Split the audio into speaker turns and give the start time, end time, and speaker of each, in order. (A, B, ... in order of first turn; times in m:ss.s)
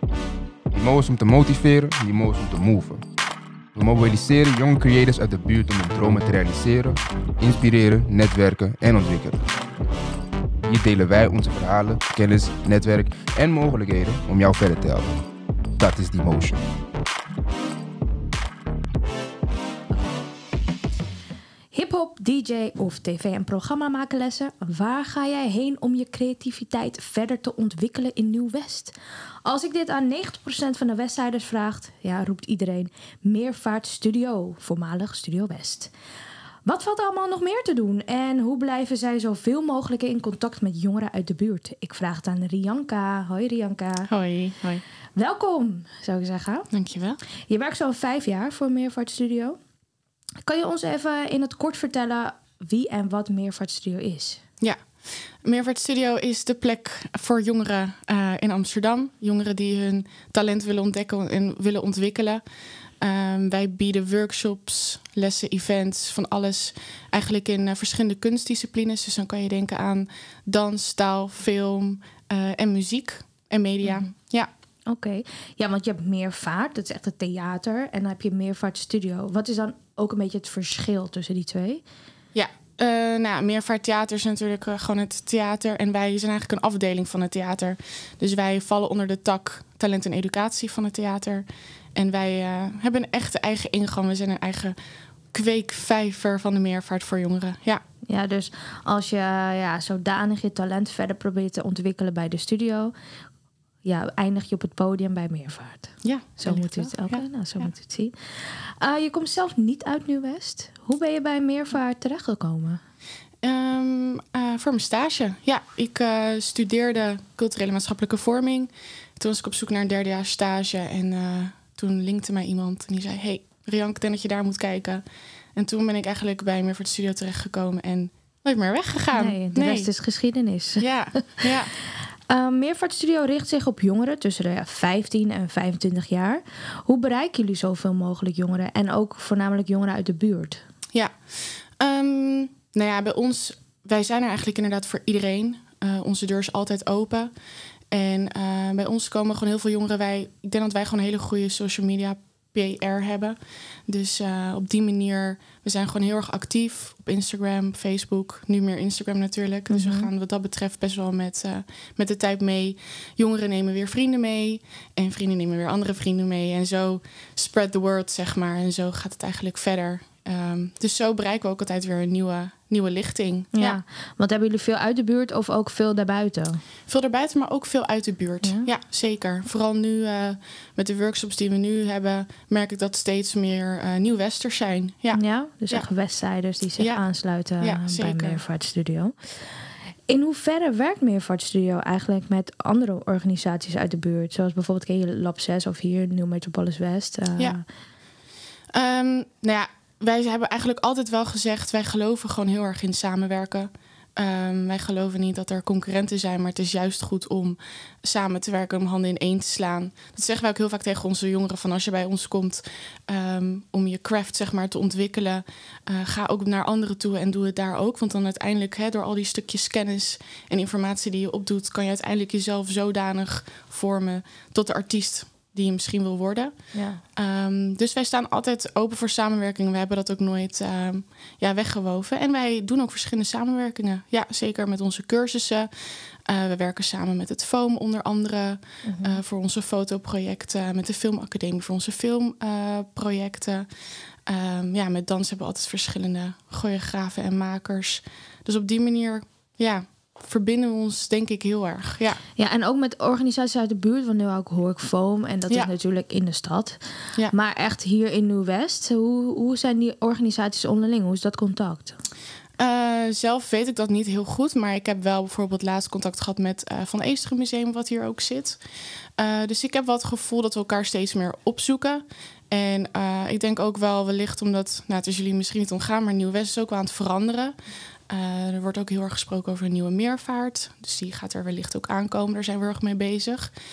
0:00.7-0:03.0 A
0:03.8-0:09.5 A
0:10.6-0:15.2 A
0:15.8-0:16.6 A
0:21.7-0:35.9 B
0:36.6-0:44.1 B
0:44.1-0:44.8 C
0:45.2-0:46.7 B
0:46.7-0:47.2 C
0:47.5-0:49.6 B
0:50.4-0:54.4 B
0:54.6-0:54.9 C
0:55.4-1:02.4 C
1:03.0-1:14.5 C
1:14.9-1:21.8 B
1:22.3-1:34.8 C
1:35.3-1:37.8 C
1:38.1-1:42.9 B
1:43.8-1:52.8 B
1:46.0-1:47.7 C
1:53.4-2:05.0 C
2:05.6-2:09.9 C
2:09.1-2:11.5 B
2:10.8-2:11.7 C
2:12.3-2:20.6 B
2:21.8-2:27.3 C
2:27.9-2:53.8 C
2:39.7-2:40.1 B
2:53.5-2:56.6 B
2:56.9-3:05.9 C
2:58.4-2:58.7 B
3:05.1-3:17.6 B
3:06.8-3:08.4 C
3:18.7-4:03.7 C
3:46.7-3:47.0 B
3:58.8-3:59.2 B
4:04.3-4:12.2 C
4:12.4-4:22.0 B
4:22.6-4:28.6 C
4:29.2-4:37.6 C
4:38.1-4:43.5 C